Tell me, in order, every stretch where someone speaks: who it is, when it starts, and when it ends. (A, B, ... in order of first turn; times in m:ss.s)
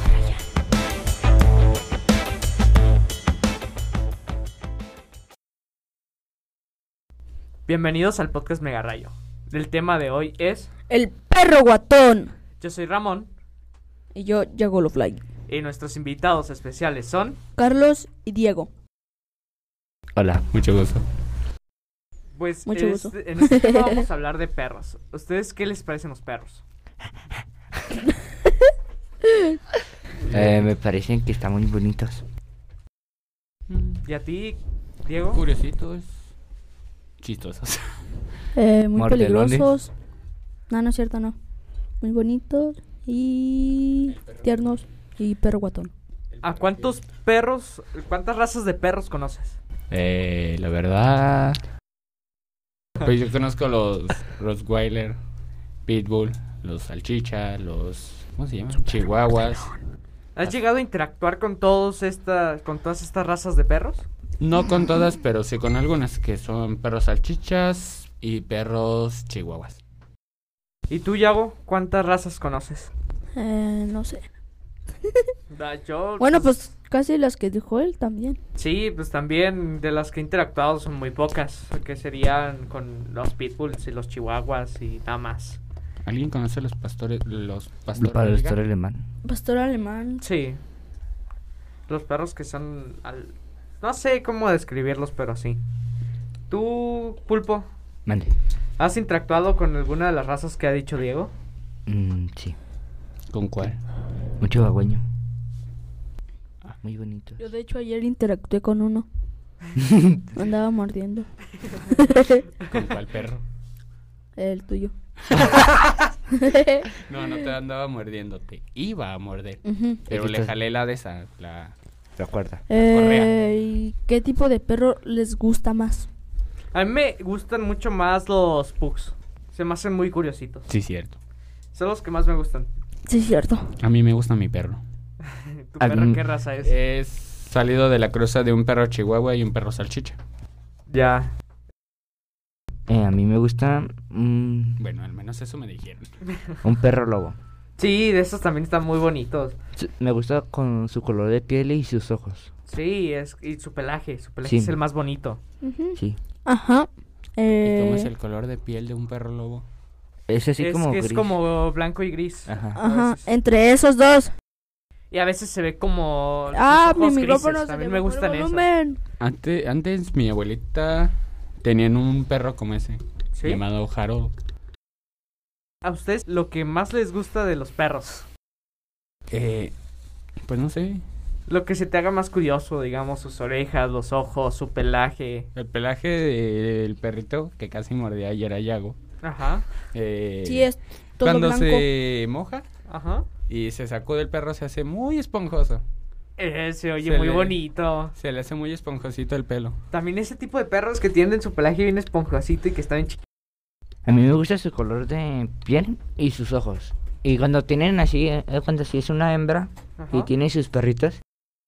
0:07.7-0:10.7 A
0:10.9-0:12.3 B
0:12.6-0:13.3 A
0:14.1-0:15.2 B
0:15.5-0:17.4 A
0:17.6-0:18.7 B
0:20.2-0:20.5 C
0:20.5-0:21.0 D
0:22.3-0:26.6 A
0:22.6-0:24.0 B
0:29.3-0:29.6 B
0:30.2-0:30.7 D
0:30.3-0:32.2 C
0:33.7-0:34.0 D
0:34.0-0:35.4 A
0:35.3-0:36.1 D
0:37.2-0:37.8 D
0:38.5-0:39.9 B
0:39.0-0:39.7 C
0:40.7-0:41.4 B
0:42.0-0:45.9 B
0:44.0-0:44.8 D
0:46.3-0:47.0 D
0:46.4-0:49.6 A
0:49.9-0:51.6 D
0:53.0-0:55.2 D
0:55.8-0:59.7 D
1:00.4-1:04.0 A
1:04.4-1:09.8 D
1:10.9-1:12.9 A
1:13.3-1:14.2 B
1:15.5-1:16.7 A
1:16.2-1:18.4 B
1:18.6-1:25.6 A
1:26.0-1:28.6 D
1:28.0-1:29.0 C
1:29.2-1:30.2 B
1:30.2-1:30.6 A
1:31.9-1:35.6 A
1:36.5-1:37.7 A
1:38.0-1:38.3 C
1:38.8-1:41.3 A
1:41.9-1:42.6 C
1:43.3-1:43.8 D
1:44.4-1:45.0 C
1:46.8-1:47.4 C
1:47.4-1:49.1 B
1:49.8-1:50.3 C
1:50.3-1:51.3 B
1:51.9-1:52.4 B
1:52.7-1:53.4 D
1:54.4-1:55.5 B
1:56.3-1:56.9 B
1:57.0-2:01.7 D
1:59.6-2:00.0 B
2:00.1-2:00.5 C
2:02.2-2:02.6 C
2:02.7-2:06.1 B
2:02.9-2:03.4 D
2:06.7-2:10.7 A
2:10.7-2:11.2 D
2:11.7-2:12.7 A
2:13.1-2:13.7 B
2:13.8-2:14.8 D
2:15.2-2:16.7 A
2:15.8-2:16.2 C
2:16.6-2:20.2 D
2:20.9-2:21.3 A
2:22.9-2:24.8 C
2:24.8-2:26.1 D
2:26.6-2:27.4 C
2:27.8-2:29.6 A
2:29.8-2:32.5 C
2:32.7-2:35.4 A
2:34.4-2:34.8 C
2:35.6-2:38.1 B
2:37.6-2:39.6 D
2:40.3-2:41.4 C
2:40.6-2:43.3 A
2:42.5-2:42.8 C
2:42.7-2:44.3 B
2:45.1-2:48.7 A
2:46.5-2:49.0 B
2:49.2-2:54.3 D
2:53.4-2:53.6 A
2:55.8-2:58.2 A
2:59.3-2:59.7 D
3:00.4-3:01.0 D
3:01.5-3:05.5 A
3:05.5-3:09.0 D
3:09.2-3:09.6 A
3:09.9-3:12.6 D
3:10.4-3:11.9 B
3:12.9-3:13.3 A
3:13.5-3:15.8 D
3:16.4-3:18.1 A
3:17.0-3:17.6 D
3:18.2-3:19.8 D
3:19.9-3:23.2 A
3:24.0-3:31.2 C
3:30.0-3:30.3 A